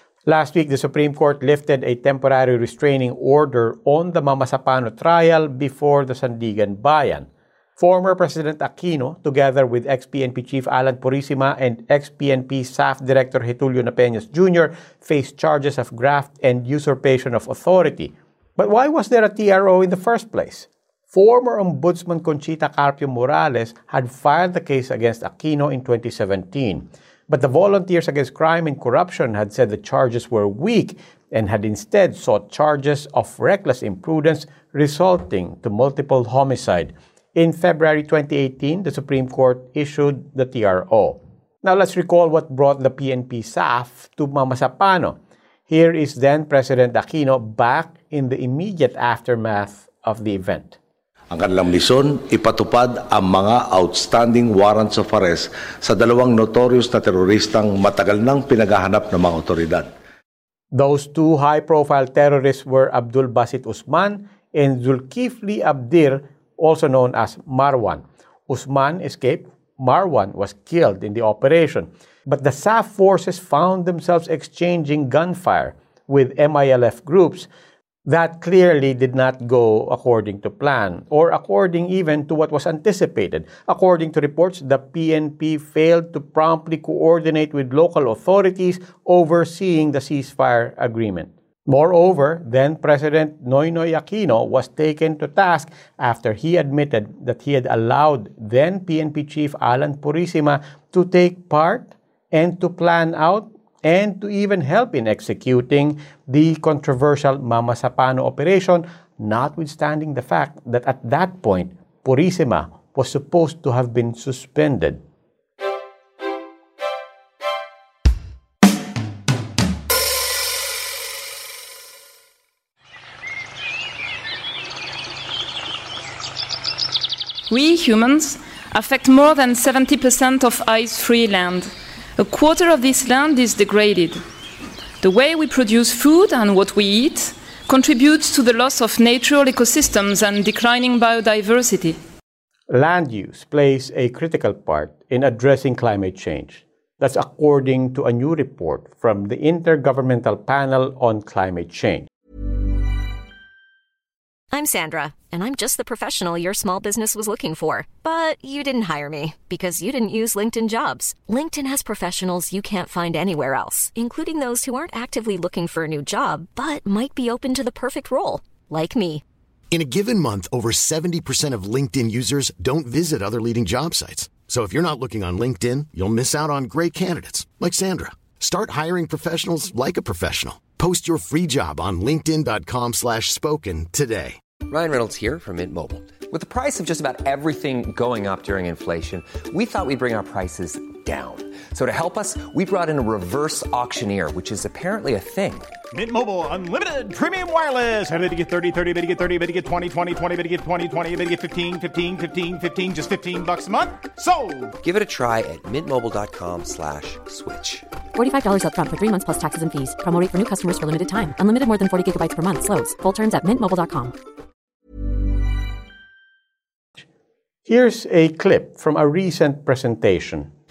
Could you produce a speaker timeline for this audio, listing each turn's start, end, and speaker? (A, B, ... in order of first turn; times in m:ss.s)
0:00.3-0:45.1 A
0:45.7-0:50.8 A
0:51.3-0:59.9 B
1:00.7-1:17.5 A
1:18.1-1:55.0 A
2:07.5-2:14.2 C
2:15.0-2:22.0 C
2:22.7-2:32.1 A
2:34.5-2:49.2 D
2:49.7-3:04.4 E
3:04.6-3:15.8 F
3:15.9-3:24.7 G
3:24.8-3:27.9 F
3:28.2-3:34.1 H
3:37.7-3:40.5 A